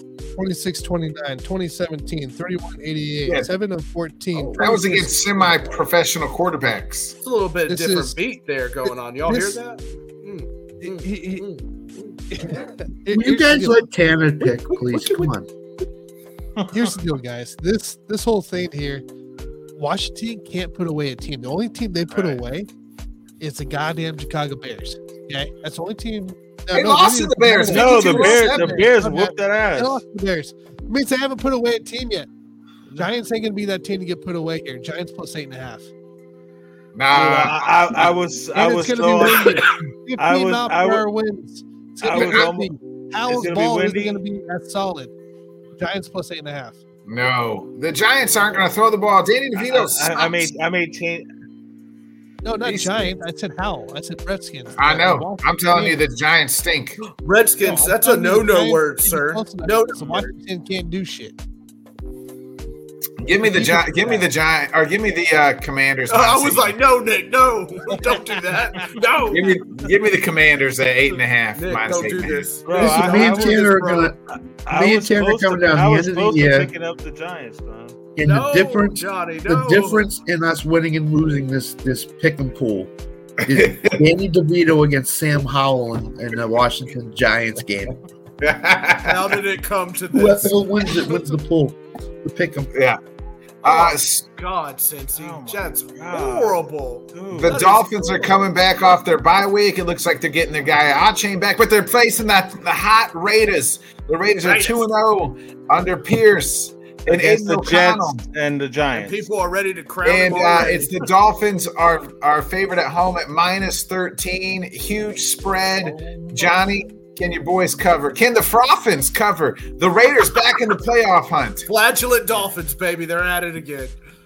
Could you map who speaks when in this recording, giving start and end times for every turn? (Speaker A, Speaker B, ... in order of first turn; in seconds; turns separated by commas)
Speaker A: 0.4-5.1, Speaker B: 4.3-4.8, Speaker C: 4.6-7.2, Speaker B: 7.2-12.6, Speaker A: 7.7-8.2, Speaker A: 9.3-9.6, Speaker A: 10.8-11.5, Speaker A: 12.3-13.8, Speaker D: 13.1-15.5, Speaker B: 14.7-15.3, Speaker A: 16.7-19.0, Speaker A: 19.8-22.7, Speaker A: 23.4-32.3, Speaker C: 26.7-28.9, Speaker E: 27.7-30.0, Speaker A: 33.0-35.9, Speaker C: 37.0-38.1, Speaker E: 37.1-41.1, Speaker A: 38.5-45.1, Speaker E: 42.0-42.7, Speaker C: 42.1-42.5, Speaker E: 43.3-44.2, Speaker A: 45.8-46.8, Speaker C: 47.1-50.5, Speaker E: 49.6-51.3, Speaker A: 52.4-56.0, Speaker C: 52.6-53.1, Speaker C: 54.8-57.0, Speaker B: 57.2-60.3, Speaker A: 57.6-61.4, Speaker C: 63.2-66.8, Speaker A: 63.4-64.3, Speaker B: 66.1-69.6, Speaker C: 69.3-72.5, Speaker B: 71.5-74.1, Speaker E: 72.7-73.8, Speaker D: 72.7-76.7, Speaker E: 74.7-78.0, Speaker D: 78.2-82.9, Speaker B: 78.2-80.1, Speaker D: 83.4-88.0, Speaker C: 83.5-84.0, Speaker C: 88.4-89.4, Speaker B: 89.0-91.2, Speaker D: 90.1-92.7, Speaker C: 92.7-93.0, Speaker C: 93.6-94.2, Speaker B: 93.6-98.5, Speaker E: 95.2-97.6, Speaker C: 97.3-108.2, Speaker B: 104.4-104.9, Speaker E: 107.1-109.3, Speaker B: 108.9-111.0, Speaker C: 110.0-121.7, Speaker B: 121.7-124.0